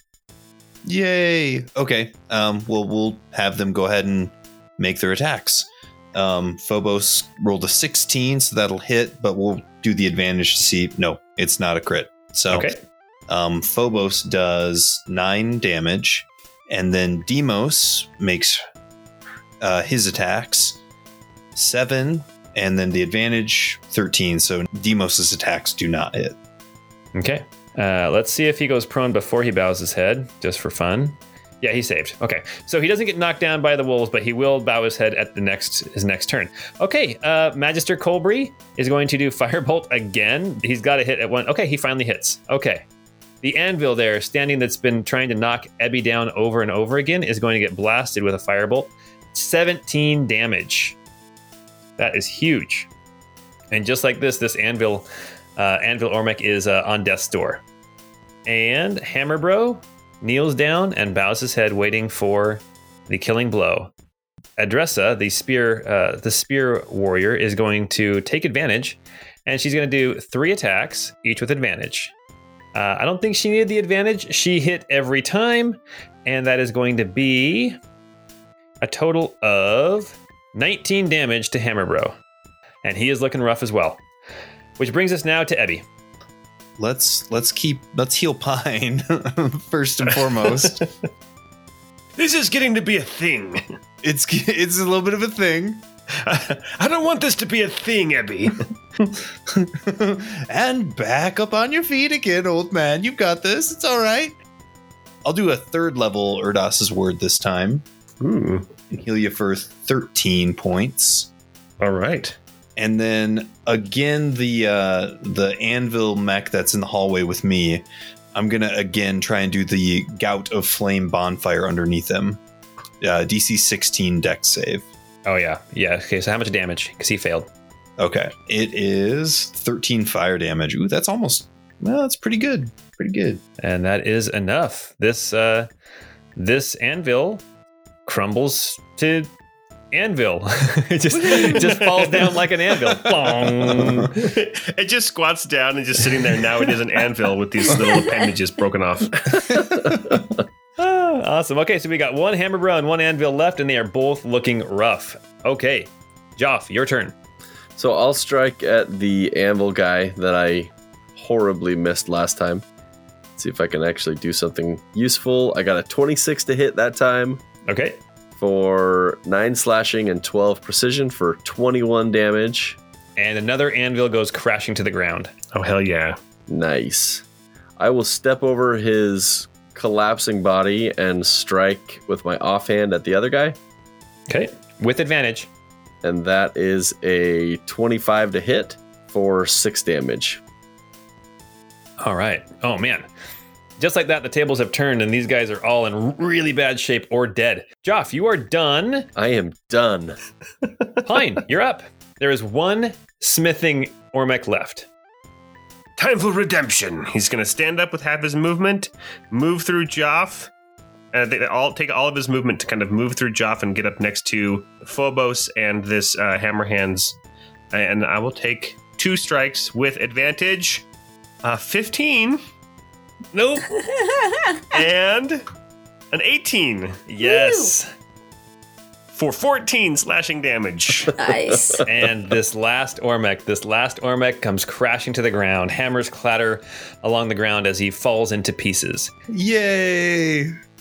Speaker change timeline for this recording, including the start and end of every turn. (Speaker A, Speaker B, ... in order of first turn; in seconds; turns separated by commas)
Speaker A: 0.8-12.7, Speaker B: 12.5-12.8, Speaker A: 13.3-18.6, Speaker A: 19.6-20.8, Speaker A: 21.6-26.4, Speaker B: 27.1-42.8, Speaker B: 43.4-51.0, Speaker B: 52.0-52.9, Speaker B: 53.7-55.1, Speaker B: 55.6-57.6, Speaker B: 58.5-63.9, Speaker B: 64.6-72.1, Speaker B: 72.7-77.8, Speaker B: 78.8-82.2, Speaker B: 82.8-84.0, Speaker B: 84.8-85.8, Speaker A: 86.8-90.9, Speaker C: 92.2-93.6, Speaker A: 94.0-95.8, Speaker C: 96.2-98.7, Speaker A: 99.5-104.4, Speaker A: 105.2-107.8, Speaker C: 108.2-108.7, Speaker A: 108.9-111.3, Speaker C: 111.8-112.4, Speaker A: 112.8-122.4, Speaker A: 123.0-124.9, Speaker B: 125.3-127.5, Speaker A: 128.0-133.4, Speaker B: 133.6-135.7, Speaker B: 136.4-137.4, Speaker B: 138.1-139.3, Speaker B: 139.9-144.3, Speaker C: 141.2-142.9, Speaker C: 144.1-149.4, Speaker A: 149.5-150.2, Speaker B: 150.8-157.2, Speaker D: 157.8-162.6, Speaker D: 163.4-167.4, Speaker B: 167.7-168.0, Speaker D: 168.4-172.8, Speaker B: 173.2-175.3, Speaker C: 175.5-176.2, Speaker D: 176.5-177.2, Speaker D: 177.8-183.6, Speaker B: 184.3-185.5, Speaker D: 186.0-190.4, Speaker B: 192.0-193.1, Speaker B: 193.8-199.1, Speaker D: 199.2-200.2, Speaker B: 201.0-204.9, Speaker C: 206.0-210.5, Speaker C: 211.1-217.2, Speaker C: 217.7-220.9, Speaker C: 221.4-222.4, Speaker B: 223.3-223.6, Speaker E: 223.8-224.6, Speaker C: 224.7-225.4, Speaker C: 226.1-227.0, Speaker B: 227.1-227.9, Speaker E: 227.2-227.7, Speaker C: 229.1-231.1, Speaker E: 231.2-231.8, Speaker B: 231.8-239.1, Speaker A: 239.3-240.5